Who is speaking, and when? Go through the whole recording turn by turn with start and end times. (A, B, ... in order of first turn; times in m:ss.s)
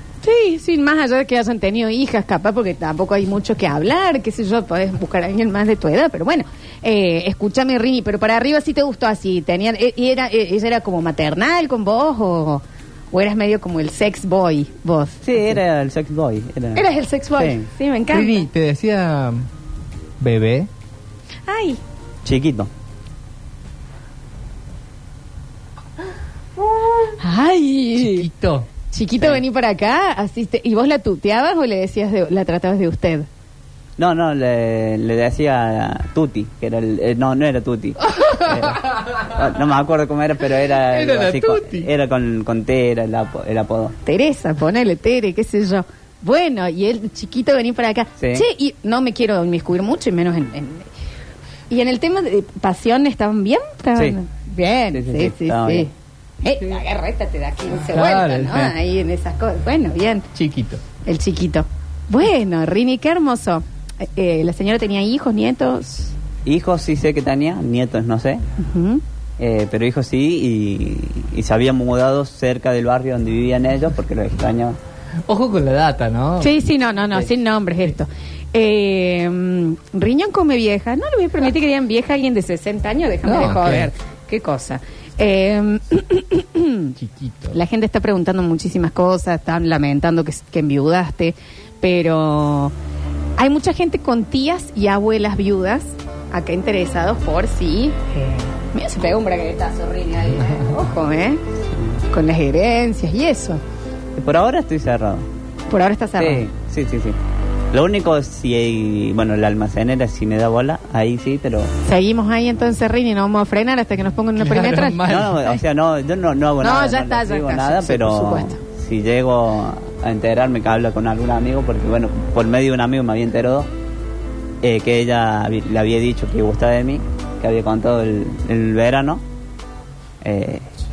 0:00.2-0:15.2 A
0:15.2-0:17.7 B
0:16.8-0:18.5 A
0:18.1-0:19.5 C
0:20.2-0:20.7 C
0:21.5-0:21.8 A
0:22.2-0:22.7 B
0:27.2-0:28.3 A
0:28.0-0:28.7 C
0:28.9-0:33.3 A
0:34.0-0:44.0 B
0:38.1-0:39.2 C
0:40.9-0:41.9 C
0:44.0-0:50.9 A
0:48.2-0:48.5 B
0:51.7-0:55.9 A
0:54.9-0:55.9 B
0:56.4-1:00.2 A
0:57.8-0:58.7 C
1:00.4-1:00.8 C
1:01.0-1:06.1 A
1:06.4-1:08.4 B
1:08.6-1:09.0 A
1:09.4-1:14.8 B
1:15.3-1:16.6 C
1:16.4-1:26.9 A
1:23.2-1:23.9 C
1:27.0-1:27.6 C
1:27.5-1:32.7 A
1:33.4-1:41.4 A
1:42.1-1:43.6 A
1:44.2-1:45.3 B
1:45.7-1:46.4 A
1:46.2-1:47.2 B
1:47.7-1:51.7 B
1:51.9-1:55.1 A
1:54.4-1:55.5 C
1:55.1-2:03.7 B
1:56.6-1:58.6 A
2:04.6-2:09.2 B
2:10.2-2:10.7 B